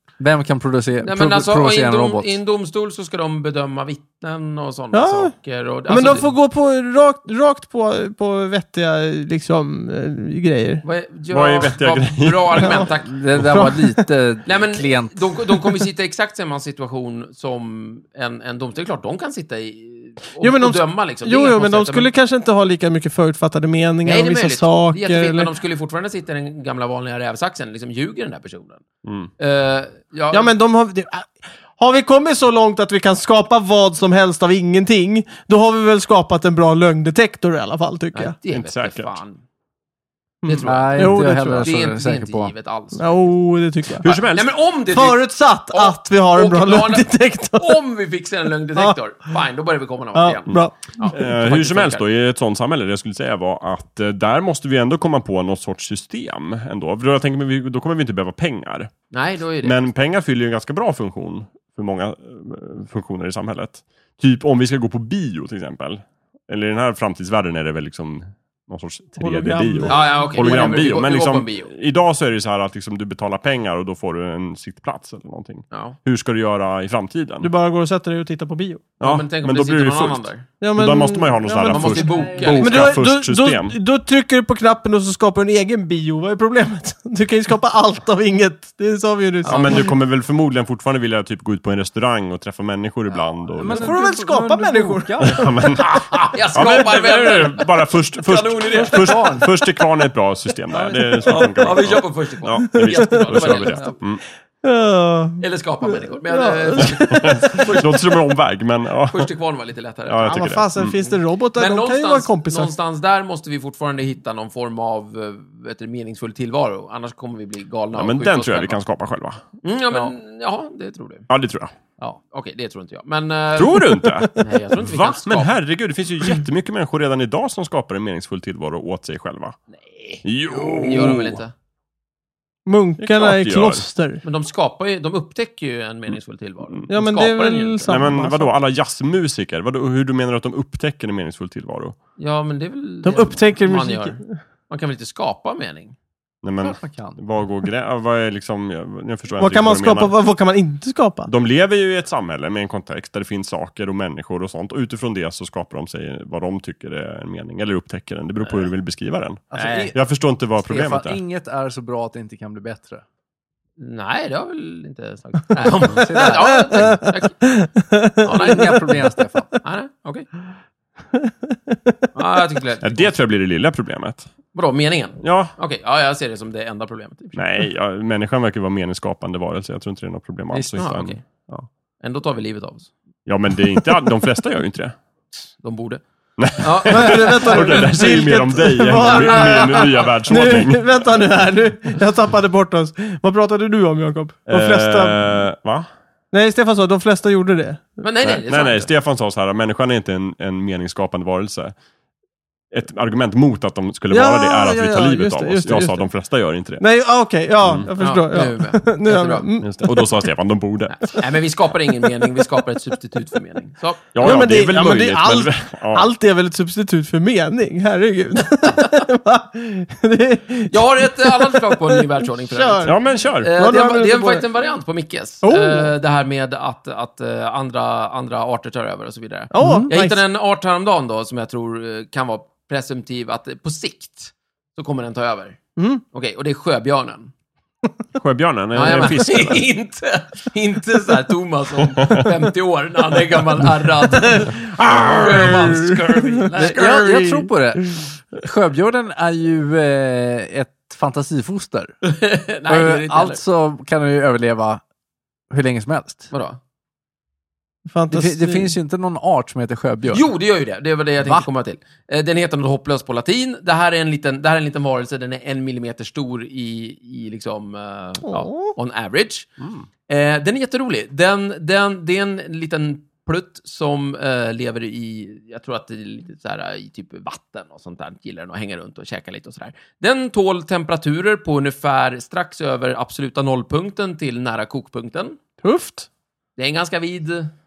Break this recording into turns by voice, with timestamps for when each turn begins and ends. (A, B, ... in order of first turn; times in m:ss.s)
0:00.2-0:02.4 A
0:01.0-0:06.3 B
0:04.9-0:05.3 C
0:05.9-0:10.8 C
0:10.8-0:13.2 B
0:11.3-0:12.9 D
0:12.6-0:12.9 C
0:13.1-0:15.4 A
0:13.6-0:14.0 C
0:14.4-0:22.1 B
0:20.4-0:25.5 C
0:24.0-0:28.8 B
0:29.0-0:29.3 D
0:29.4-0:30.5 B
0:30.3-0:38.4 C
0:38.1-0:39.4 B
0:38.5-0:39.2 D
0:40.4-0:41.7 C
0:40.4-0:43.3 B
0:40.6-0:42.5 A
0:43.0-0:44.1 C
0:44.0-0:44.5 D
0:44.0-0:52.0 B
0:44.9-0:47.8 C
0:50.1-0:51.1 C
0:51.1-0:58.9 D
0:59.1-0:59.8 B
0:59.6-1:17.5 D
1:09.2-1:10.9 C
1:09.9-1:11.7 B
1:15.7-1:16.0 B
1:17.4-1:18.9 C
1:19.0-1:20.5 B
1:19.0-1:23.8 D
1:20.6-1:29.9 C
1:21.7-1:23.0 B
1:22.1-1:22.6 A
1:29.4-1:33.9 D
1:33.6-1:35.5 A
1:33.7-1:35.5 C
1:35.2-1:44.2 D
1:35.8-1:39.5 B
1:38.8-1:39.5 A
1:40.8-1:41.5 A
1:41.2-1:43.9 B
1:42.7-1:43.7 C
1:44.6-1:47.8 C
1:45.4-1:48.0 B
1:46.8-1:49.3 D
1:49.1-1:50.5 B
1:50.1-1:51.0 D
1:50.2-1:52.7 C
1:51.6-1:58.8 B
1:58.0-1:59.4 D
1:59.6-2:01.3 B
2:01.3-2:01.7 D
2:02.0-2:05.5 B
2:03.6-2:09.6 D
2:03.9-2:04.5 C
2:09.7-2:11.5 B
2:10.2-2:11.4 D
2:12.6-2:14.2 C
2:13.0-2:13.8 D
2:14.2-2:18.0 B
2:16.9-2:18.5 C
2:17.9-2:22.0 D
2:22.2-2:26.0 B
2:23.0-2:24.2 C
2:26.4-2:30.1 D
2:26.6-2:27.2 A
2:29.4-2:31.3 C
2:31.3-2:41.2 D
2:39.5-2:40.0 A
2:39.6-2:39.9 B
2:40.6-2:43.0 A
2:43.8-2:47.4 B
2:45.8-2:46.9 A
2:46.2-2:49.0 C
2:48.2-2:48.9 B
2:48.3-2:49.5 A
2:49.6-2:50.3 B
2:51.2-2:52.0 C
2:52.1-2:53.2 B
2:52.8-2:54.3 D
2:54.5-2:57.4 B
2:55.2-2:55.5 D
2:57.4-3:01.7 D
3:00.5-3:00.8 A
3:00.8-3:01.2 B
3:02.0-3:02.9 B
3:03.3-3:04.9 D
3:05.6-3:06.0 B
3:06.4-3:10.9 D
3:06.6-3:07.9 B
3:06.9-3:15.1 C
3:09.0-3:10.6 B
3:14.5-3:15.9 D
3:16.3-3:18.0 C
3:18.0-3:18.9 B
3:18.2-3:21.8 D
3:22.7-3:26.8 D
3:24.1-3:26.1 C
3:26.8-3:30.2 C
3:27.6-3:27.9 D
3:28.0-3:29.5 B
3:29.6-3:31.2 D
3:30.9-3:34.1 B
3:34.1-3:36.1 D
3:34.2-3:44.4 C
3:40.7-3:57.3 B
3:42.8-3:43.5 D
3:45.4-3:45.9 C
3:49.5-3:50.2 C
3:49.6-3:49.9 A
3:55.8-3:56.0 C
3:58.2-3:59.7 D
3:58.7-4:07.1 B
4:02.0-4:02.3 D
4:04.2-4:07.5 C
4:06.5-4:12.0 A
4:12.0-4:13.4 B
4:12.7-4:14.8 A
4:15.5-4:16.3 A
4:16.3-4:16.6 B
4:17.9-4:18.8 C
4:18.1-4:20.3 A
4:20.1-4:29.5 B
4:21.2-4:21.5 A
4:28.3-4:28.7 C
4:29.6-4:29.9 D
4:30.1-4:45.4 B
4:45.6-4:46.1 C
4:46.6-4:47.5 B